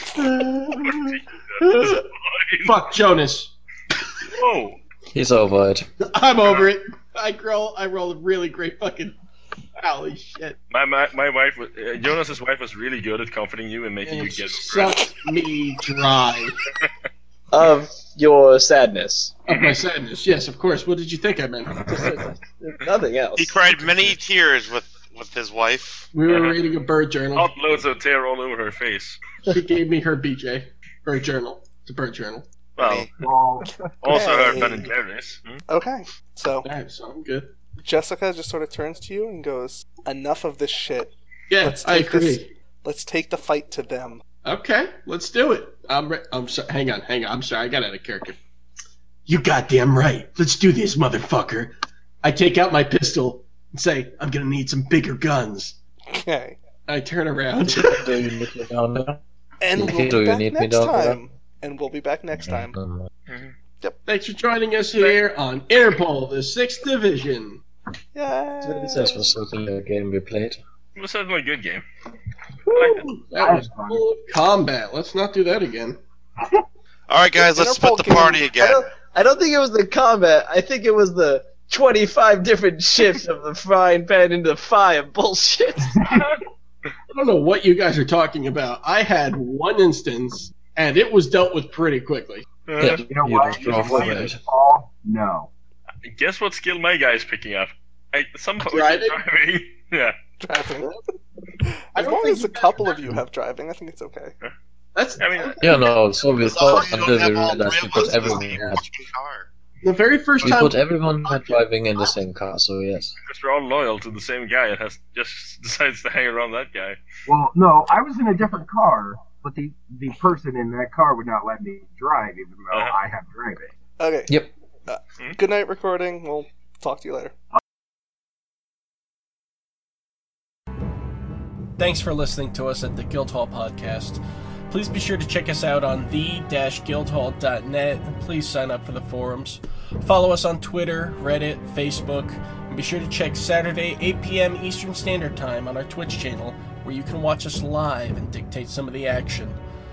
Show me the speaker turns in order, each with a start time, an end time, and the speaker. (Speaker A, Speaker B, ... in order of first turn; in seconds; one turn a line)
Speaker A: 0.1-1.1
Speaker B: 0.8-2.9
Speaker A: 1.6-1.9
Speaker C: 2.6-3.5
Speaker B: 4.3-4.8
Speaker D: 5.1-5.9
Speaker C: 6.0-9.2
Speaker C: 9.8-10.6
Speaker B: 10.7-15.1
Speaker C: 14.0-16.6
Speaker A: 17.5-19.4
Speaker C: 19.5-21.8
Speaker B: 19.5-19.8
Speaker A: 21.8-23.6
Speaker E: 23.4-26.1
Speaker C: 23.8-24.1
Speaker C: 26.1-27.6
Speaker B: 26.3-26.6
Speaker B: 27.3-29.2
Speaker C: 29.5-32.5
Speaker B: 32.8-33.1
Speaker E: 32.8-33.1
Speaker F: 33.2-33.7
Speaker B: 34.0-35.6
Speaker G: 34.1-34.9
Speaker F: 34.2-34.6
Speaker G: 35.7-36.7
Speaker C: 36.6-37.5
Speaker G: 37.8-44.2
Speaker C: 41.5-42.5
Speaker C: 44.5-48.4
Speaker C: 49.3-55.8
Speaker G: 56.1-56.6
Speaker C: 56.9-58.1
Speaker D: 57.7-59.2
Speaker G: 59.6-62.8
Speaker D: 59.8-61.2
Speaker D: 62.4-63.1
Speaker B: 63.3-63.5
Speaker C: 64.1-67.6
Speaker G: 68.2-69.2
Speaker A: 68.6-69.2
Speaker D: 69.0-70.6
Speaker B: 71.0-71.8
Speaker B: 72.8-73.1
Speaker C: 72.9-76.0
Speaker F: 73.3-74.0
Speaker E: 77.1-78.9
Speaker G: 77.4-78.4
Speaker A: 78.6-86.0
Speaker F: 85.9-86.3
Speaker C: 87.1-92.5
Speaker B: 92.7-93.0
Speaker D: 92.8-94.4
Speaker F: 93.0-95.5
Speaker C: 93.5-94.3
Speaker B: 96.0-100.2
Speaker C: 98.6-99.2
Speaker G: 100.4-101.0
Speaker G: 101.7-104.3
Speaker C: 102.0-103.2
Speaker C: 105.0-105.9
Speaker B: 105.2-105.6
Speaker D: 105.6-108.8
Speaker E: 106.4-109.5
Speaker C: 109.8-111.0
Speaker D: 110.4-113.2
Speaker B: 113.2-117.0
Speaker F: 117.3-123.7
Speaker G: 124.0-124.4
Speaker G: 124.9-127.3
Speaker H: 131.8-149.6